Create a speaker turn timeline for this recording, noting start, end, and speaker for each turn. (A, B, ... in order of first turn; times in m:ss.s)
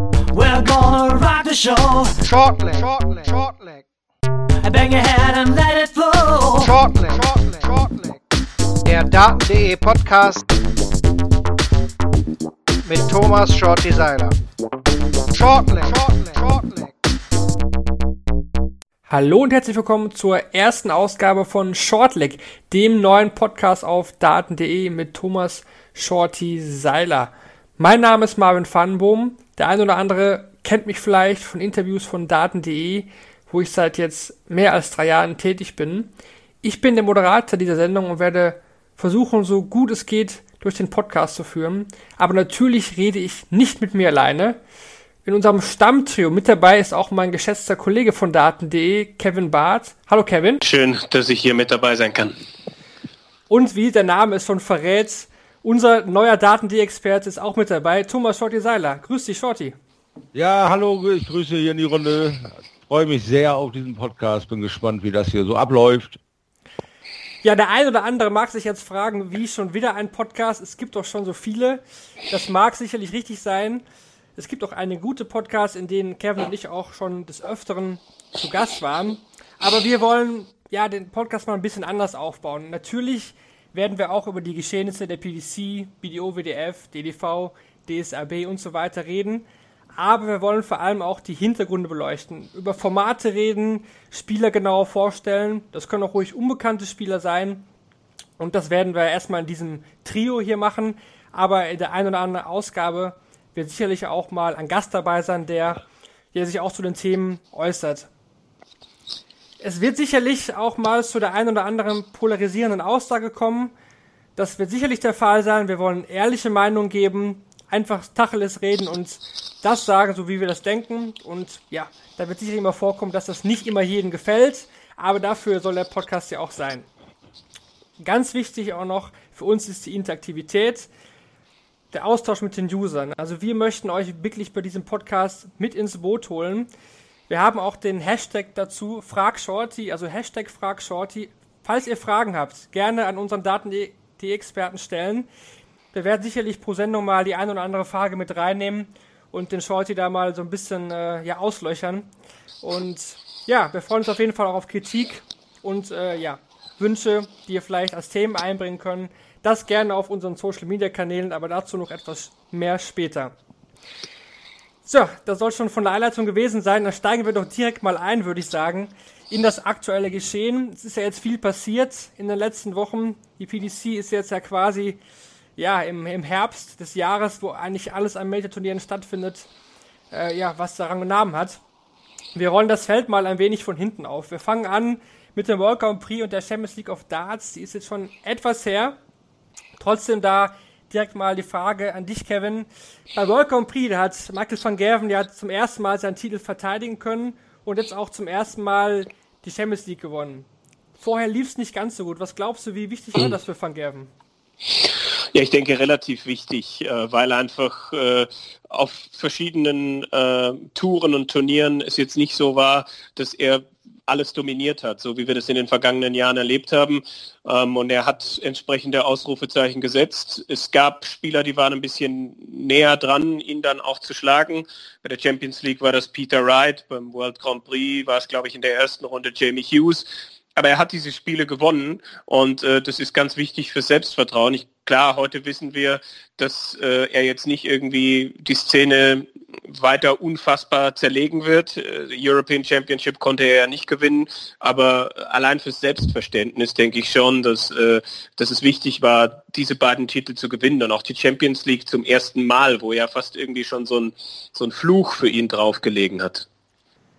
0:00.3-0:02.1 A
0:02.2-0:03.8 B
0:04.6-0:06.7 A
0:06.6-0:08.2 B
0:08.8-0:10.4 B
0:12.8-0:14.4 B
0:15.3-0:16.9 B
0:19.1-0:36.1 C
0:36.6-0:44.6 C
0:45.2-0:50.6 C
0:50.6-0:52.3 D
0:53.5-0:59.8 C
1:00.3-1:06.2 E
1:07.4-1:13.8 C
1:14.4-1:29.4 C
1:30.0-1:37.7 C
1:38.4-1:45.8 C
1:46.3-1:48.1 C
1:49.6-1:53.7 C
1:54.4-2:06.9 C
2:08.0-2:10.9 C
2:11.9-2:16.7 C
2:17.3-2:25.3 C
2:25.9-2:32.1 C
2:32.6-2:43.3 C
2:44.8-2:55.0 C
2:55.6-2:59.5 C
3:00.1-3:01.6 C
3:02.3-3:09.0 C
3:09.8-3:20.5 C
3:21.0-3:24.1 C
3:25.3-4:16.5 D